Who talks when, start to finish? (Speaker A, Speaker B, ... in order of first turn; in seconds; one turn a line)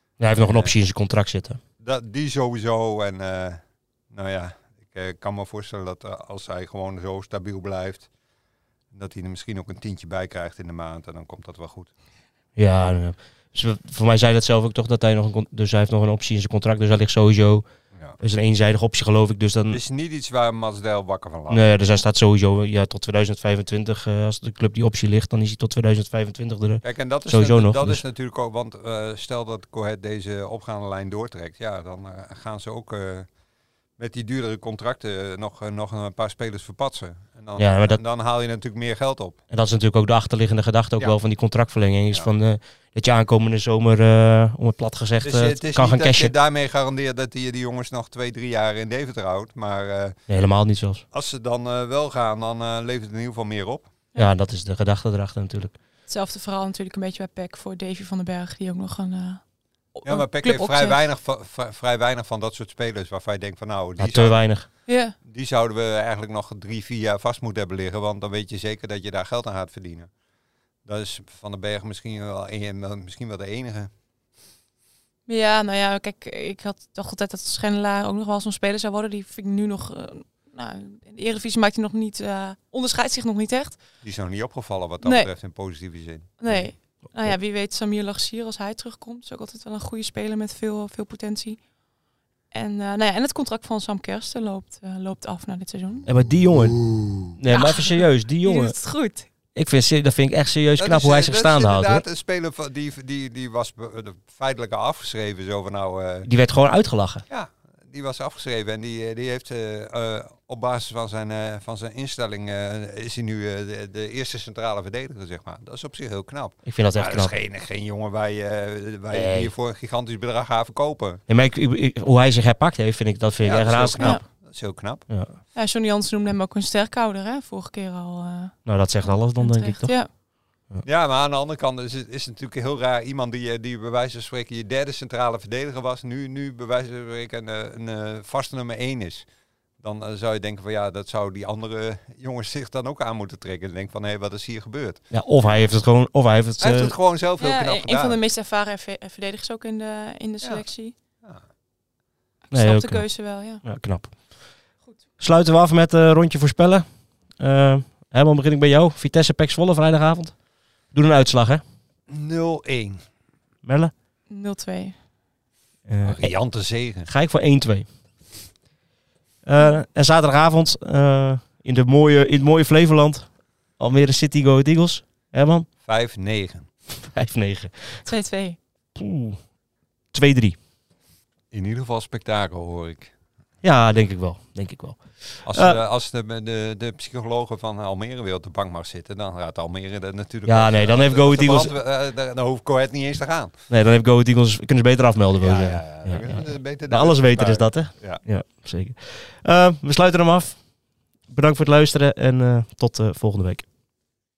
Speaker A: 0.2-1.6
Speaker B: 0.4-0.7
Speaker B: 1.8-8.1
Speaker B: 8.9-11.9
Speaker A: 12.6-17.6
Speaker A: 18.2-19.8
Speaker B: 19.7-21.7
Speaker A: 21.5-28.0
Speaker B: 26.8-33.3
Speaker B: 34.0-39.4
Speaker A: 37.6-38.0
Speaker A: 39.5-46.3
Speaker B: 45.2-50.2
Speaker A: 50.3-51.0
Speaker B: 51.1-53.9
Speaker A: 54.1-55.7
Speaker C: 56.1-59.4
Speaker C: 59.9-61.0
Speaker B: 60.0-70.1
Speaker A: 64.0-64.7
Speaker C: 64.9-65.2
Speaker B: 70.8-73.9
Speaker C: 75.3-83.8
Speaker B: 84.0-86.7
Speaker C: 85.0-85.3
Speaker C: 86.4-91.6
Speaker C: 92.5-96.1
Speaker A: 96.0-98.8
Speaker B: 96.5-97.3
Speaker C: 97.5-99.3
Speaker A: 99.5-102.0
Speaker B: 100.8-106.3
Speaker A: 106.2-107.2
Speaker B: 107.3-121.2
Speaker A: 116.7-117.3
Speaker A: 119.1-119.5
Speaker A: 121.3-124.3
Speaker B: 123.4-125.1
Speaker A: 125.1-125.4
Speaker C: 125.5-130.1
Speaker A: 128.6-130.8
Speaker B: 130.8-139.3
Speaker B: 139.8-145.5
Speaker A: 145.1-146.9
Speaker B: 146.6-148.2
Speaker C: 147.4-150.9
Speaker B: 150.4-150.7
Speaker C: 152.5-153.6
Speaker A: 152.5-154.6
Speaker A: 155.2-161.6
Speaker B: 162.1-163.0
Speaker A: 163.6-163.9
Speaker C: 164.3-164.9
Speaker A: 165.9-167.9
Speaker B: 166.0-167.1
Speaker A: 169.4-175.7
Speaker B: 175.8-176.7
Speaker A: 176.9-178.1
Speaker C: 178.1-178.6
Speaker A: 179.0-179.4
Speaker A: 180.1-180.6
Speaker B: 181.5-183.1
Speaker A: 183.6-185.8
Speaker B: 185.4-193.6
Speaker A: 190.4-191.7
Speaker A: 193.7-200.6
Speaker B: 195.4-198.2
Speaker A: 201.3-203.6